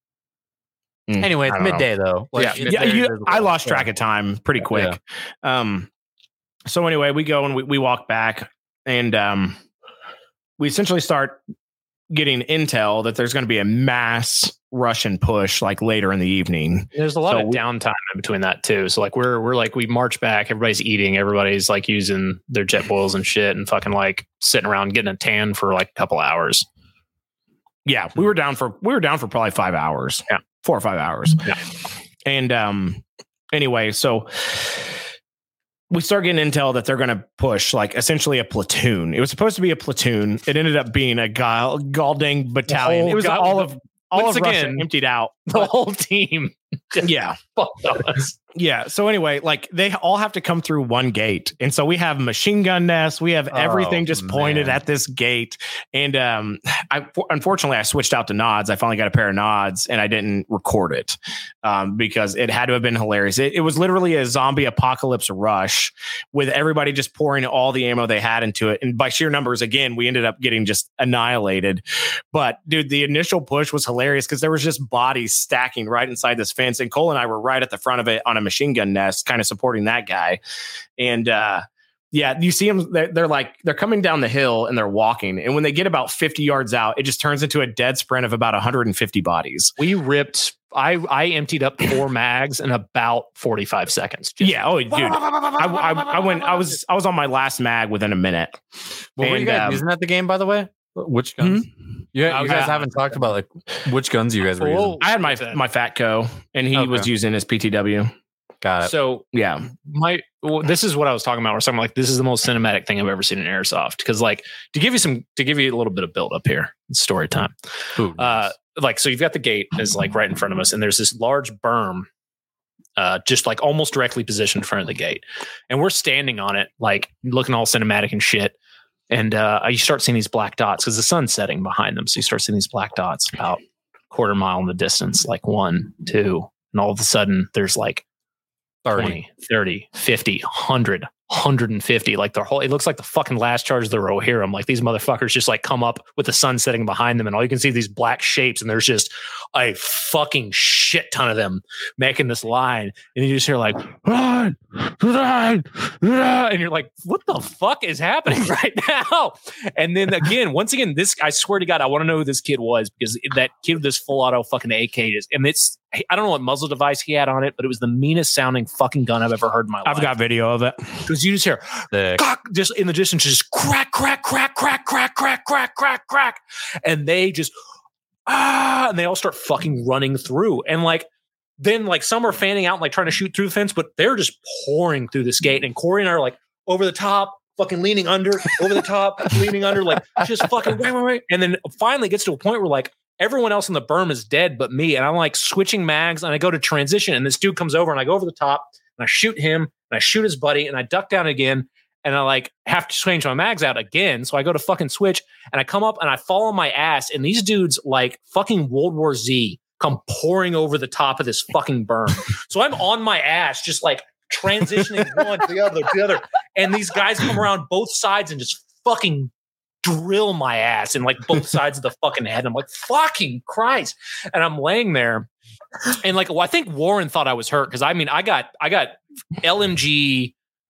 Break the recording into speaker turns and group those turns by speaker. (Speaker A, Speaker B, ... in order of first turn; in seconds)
Speaker A: 1.1-1.9, 2.5-5.9, 6.7-9.6, 10.6-11.4, 12.1-17.6, 27.8-31.6, 32.2-34.9, 35.9-45.7, 47.0-47.4, 48.5-80.4, 81.0-89.7, 94.4-98.6, 99.2-99.8, 101.4-101.7, 105.0-108.1, 109.3-109.7, 169.8-171.0
Speaker B: 1.2-3.9, 4.6-4.9, 53.5-54.8, 99.2-105.0, 106.7-107.1, 108.6-108.9, 118.0-118.5, 138.8-139.2, 171.9-172.2
Speaker C: 2.4-3.0, 16.9-26.6, 42.7-44.9, 45.5-48.3, 89.8-94.6, 102.3-103.0, 104.6-105.6, 108.8-109.2, 109.8-117.5, 118.2-122.1, 123.0-128.5, 129.1-138.0, 138.9-170.2, 171.1-177.5, 178.3-181.1, 181.6-219.3, 219.8-225.3, 225.8-230.3